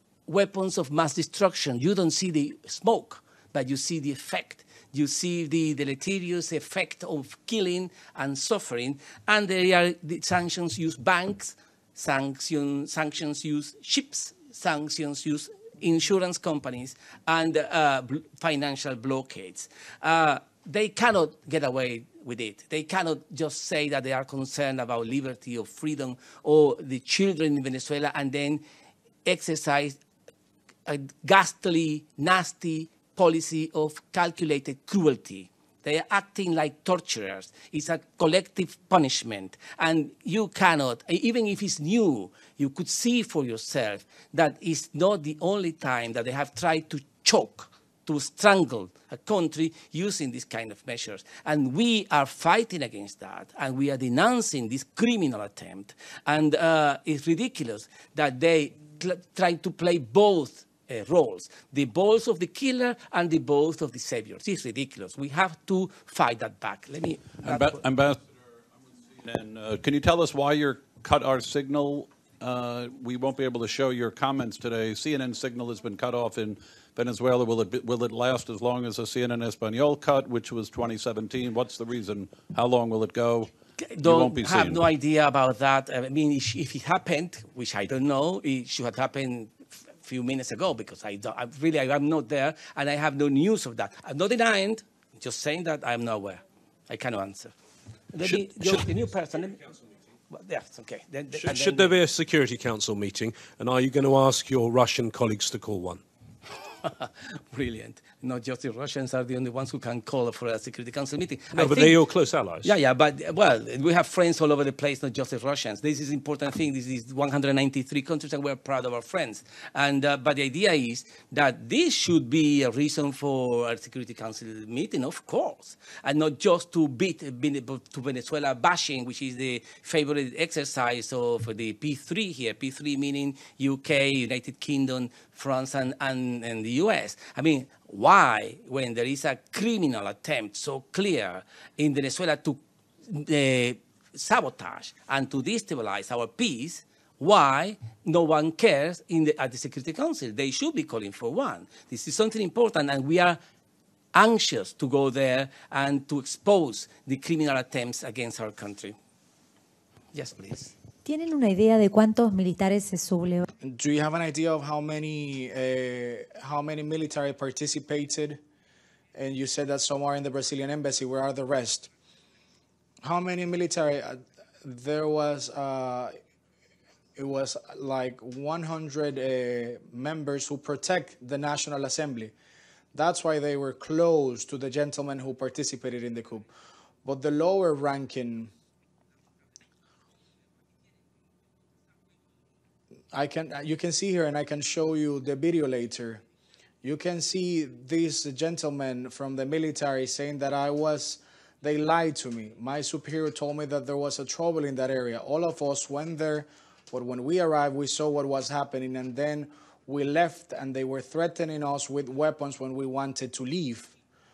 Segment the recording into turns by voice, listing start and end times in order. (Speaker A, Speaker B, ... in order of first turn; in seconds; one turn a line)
Speaker A: 0.3-28.6
Speaker A: 29.2-30.0
Speaker A: 30.9-67.8
Speaker B: 67.4-68.2
Speaker B: 69.1-84.9
Speaker A: 84.0-97.5
Speaker A: 98.1-99.7
Speaker C: 98.2-98.9
Speaker A: 100.3-102.0
Speaker C: 101.4-106.0
Speaker A: 106.8-112.0
Speaker C: 111.5-112.7
Speaker A: 112.6-153.4
Speaker A: 154.1-159.0
Speaker A: 160.1-160.7
Speaker D: 161.1-163.4
Speaker E: 163.6-168.4
Speaker E: 169.2-171.9
Speaker E: 173.0-176.2
Speaker E: 177.2-182.3
Speaker E: 182.9-186.5
Speaker E: 187.1-188.5
Speaker E: 193.1-196.2
Speaker E: 196.8-213.9